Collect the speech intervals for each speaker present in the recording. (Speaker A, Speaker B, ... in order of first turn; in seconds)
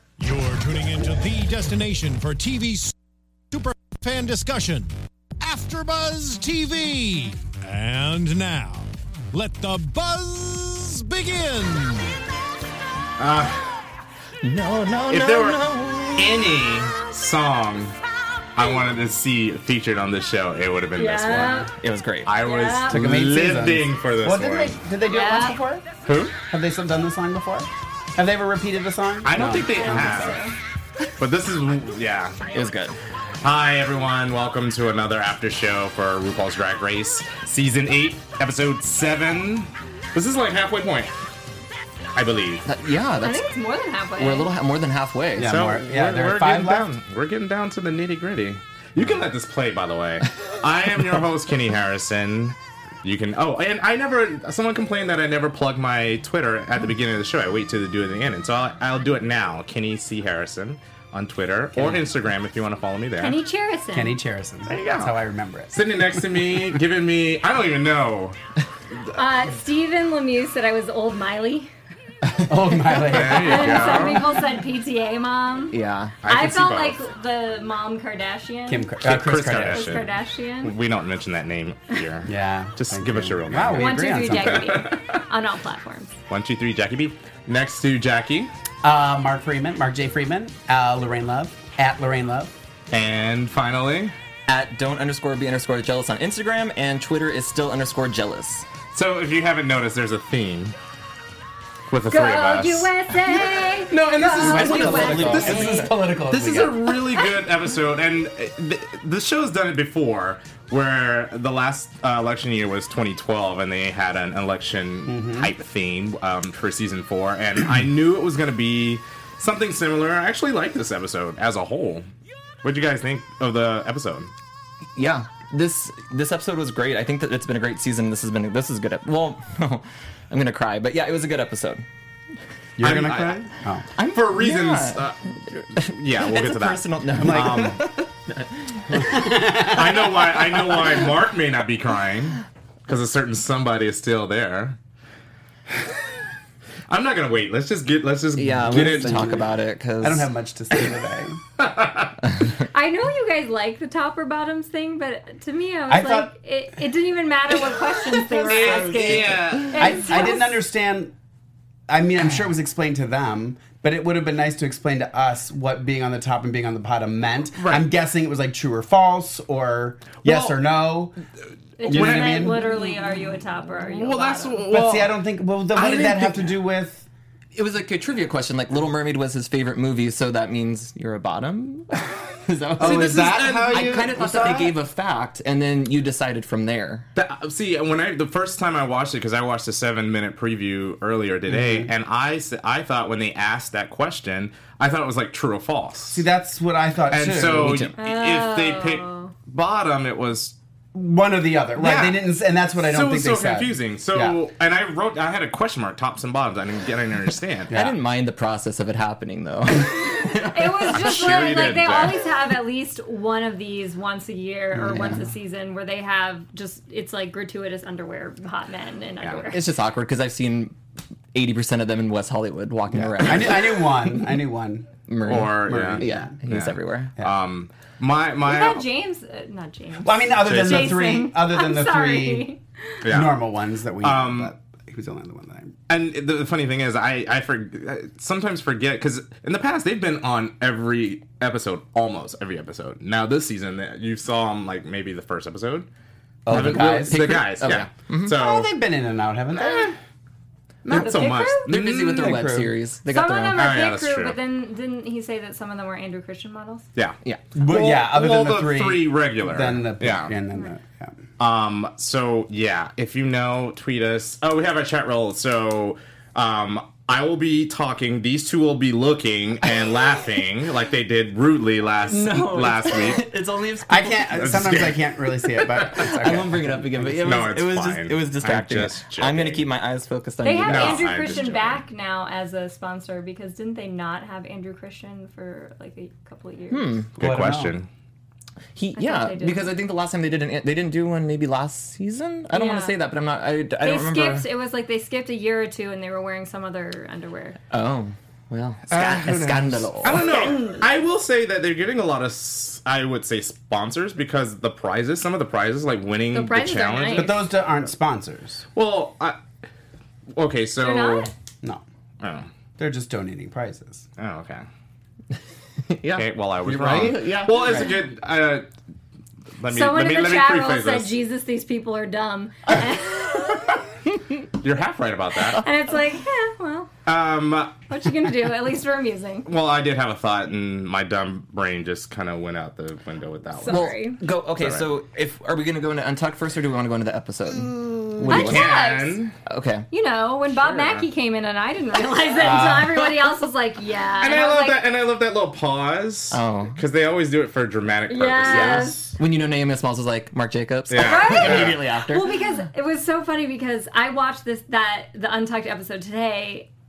Speaker A: 0.2-3.0, 3.5-12.2
Speaker B: 13.2-13.8, 15.1-15.6, 16.1-18.0, 18.6-21.7, 22.3-24.8, 26.1-26.4, 29.2-30.4, 31.2-32.4, 33.4-41.1, 42.1-42.6, 45.4-63.4, 64.7-65.2, 65.7-68.4, 73.0-74.2, 76.2-77.0, 79.0-80.1, 80.6-85.0, 86.3-88.5, 92.9-94.1, 98.9-100.7, 101.9-102.9, 103.9-122.1, 122.6-124.3, 132.8-133.5, 134.1-137.8, 139.7-144.8, 146.9-149.4, 151.6-152.2, 158.5-159.9, 167.6-167.9, 170.2-170.6, 171.9-172.8, 173.8-175.2, 175.8-176.5, 182.8-184.1, 187.2-196.3, 197.1-200.6, 201.8-202.2, 202.8-207.7, 210.9-212.2, 225.3-228.8, 230.4-231.1, 233.0-233.4, 234.0-234.5, 235.9-245.9, 246.5-248.7, 249.5-250.0, 250.8-252.4, 253.6-254.4, 257.0-260.4, 261.4-273.3, 274.4-275.0, 275.6-276.0, 277.2-279.6, 280.7-281.8, 287.2-287.9, 298.9-307.5, 308.8-309.4, 310.4-311.3, 312.2-312.5, 314.2-314.6, 316.1-318.7, 319.6-321.1, 324.6-325.6, 327.1-327.8, 329.5-333.9, 334.6-334.9, 338.2-339.3, 340.7-341.0, 344.2-349.1, 350.9-351.8
Speaker C: 14.4-16.7, 21.8-22.3, 32.5-33.0, 42.6-43.5, 44.2-45.6, 75.7-76.2, 94.5-98.7, 104.4-106.0, 125.0-131.8, 132.9-133.3, 134.0-139.3, 148.4-150.3, 158.7-159.6, 177.5-187.1, 197.5-197.9, 207.7-210.9, 219.5-220.8, 221.3-224.3, 225.1-227.1, 246.5-248.4, 250.9-253.7, 272.1-274.9, 275.7-281.1, 286.7-287.1, 288.8-294.4, 297.7-300.2, 315.9-317.9, 333.7-338.8, 339.5-339.9, 346.3-346.8, 349.2-352.4
Speaker D: 21.0-21.7, 22.4-23.0, 25.1-25.6, 29.7-30.6, 43.2-44.5, 63.2-64.2, 69.1-71.7, 73.3-78.9, 79.5-80.7, 83.7-86.2, 102.1-105.9, 152.7-160.6, 171.8-174.6, 198.0-199.3, 210.3-219.6, 228.4-233.0, 250.9-251.7, 253.1-256.9, 280.4-287.0, 288.9-289.7, 292.5-293.0, 293.8-297.6, 300.3-300.6, 306.3-307.4, 310.8-311.3, 319.7-323.8, 325.6-326.9, 327.9-329.5, 333.6-334.2, 338.3-339.2, 339.9-344.8, 348.1-349.0, 350.9-356.7
Speaker E: 22.9-25.9, 26.5-30.3, 45.4-46.9, 61.8-62.0, 63.9-66.7, 72.4-74.1, 78.7-80.0, 82.3-84.8, 88.8-92.6, 104.4-106.9, 115.1-115.5, 132.8-133.9, 137.2-137.8, 138.9-140.8, 148.6-149.5, 150.0-151.4, 155.9-156.3, 158.4-159.1, 159.7-161.1, 161.9-171.1, 171.8-172.6, 174.7-177.1, 182.8-184.7, 191.5-191.9, 196.1-197.9, 200.9-204.4, 207.7-208.0, 214.8-215.3, 222.9-226.3, 230.0-232.5, 233.1-235.7, 246.5-247.8, 248.3-249.9, 251.8-252.7, 257.6-261.1, 273.9-277.2, 287.2-287.8, 307.1-308.6, 312.8-314.1, 316.9-317.1, 342.3-343.1, 348.5-348.9